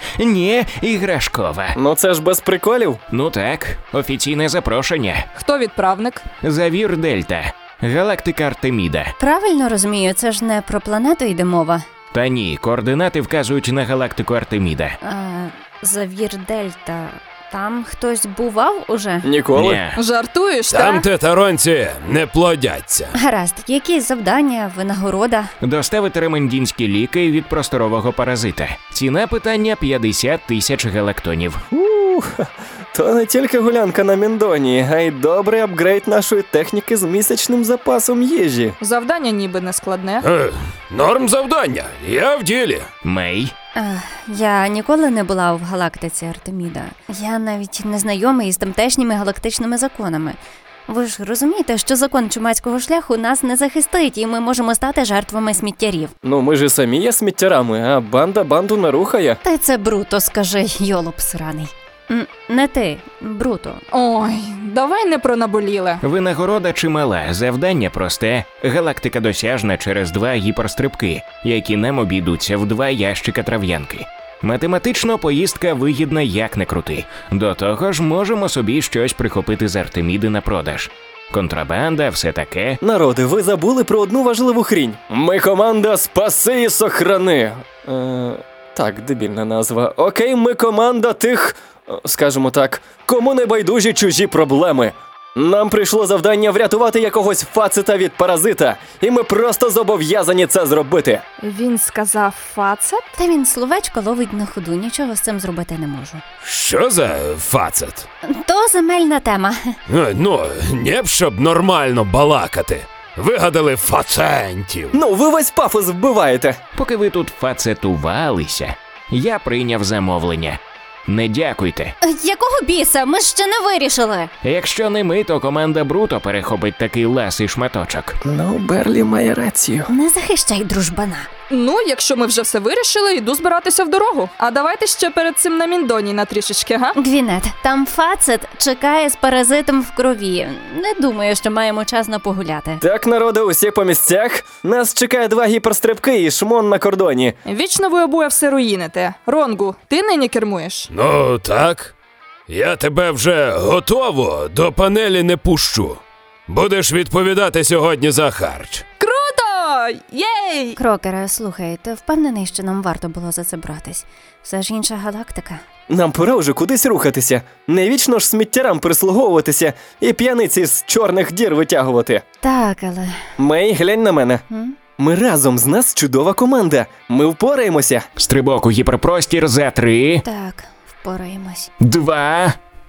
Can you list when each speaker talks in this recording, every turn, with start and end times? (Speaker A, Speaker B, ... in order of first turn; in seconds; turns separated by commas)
Speaker A: 0.2-1.8, Speaker B: 1.8-3.0, Speaker A: 3.1-5.3, Speaker C: 5.4-6.3, Speaker A: 6.4-9.1, Speaker D: 9.2-11.8, Speaker A: 12.1-14.9, Speaker D: 15.0-19.3, Speaker B: 19.2-19.8, Speaker A: 19.6-20.0, Speaker C: 19.9-21.1, Speaker E: 20.7-23.1, Speaker D: 23.1-25.5, Speaker A: 25.6-31.6, Speaker B: 31.7-38.8, Speaker C: 38.8-40.2, Speaker E: 40.2-42.9, Speaker A: 43.0-43.5, Speaker D: 43.8-56.1, Speaker B: 56.2-59.4, Speaker D: 59.4-63.8, Speaker C: 63.9-66.0, Speaker A: 66.0-82.8, Speaker B: 82.8-101.2, Speaker C: 101.4-103.2, Speaker D: 103.2-106.2, Speaker E: 106.4-108.1, Speaker D: 108.3-109.8, Speaker E: 109.9-115.0, Speaker B: 114.9-116.6, Speaker A: 116.8-121.9, Speaker D: 122.0-124.3, Speaker A: 124.4-128.2, Speaker B: 128.2-129.9, Speaker D: 129.9-131.3, Speaker C: 131.5-136.9, Speaker D: 137.0-142.8, Speaker B: 142.8-147.3, Speaker C: 147.4-150.9, Speaker E: 150.9-151.9, Speaker E: 152.5-158.8, Speaker C: 159.0-160.8, Speaker D: 160.8-165.6, Speaker B: 165.9-172.2, Speaker D: 172.4-173.2, Speaker B: 173.4-174.4, Speaker D: 174.5-174.8, Speaker B: 175.0-178.1, Speaker A: 178.2-180.2, Speaker D: 180.2-181.7, Speaker A: 181.8-182.6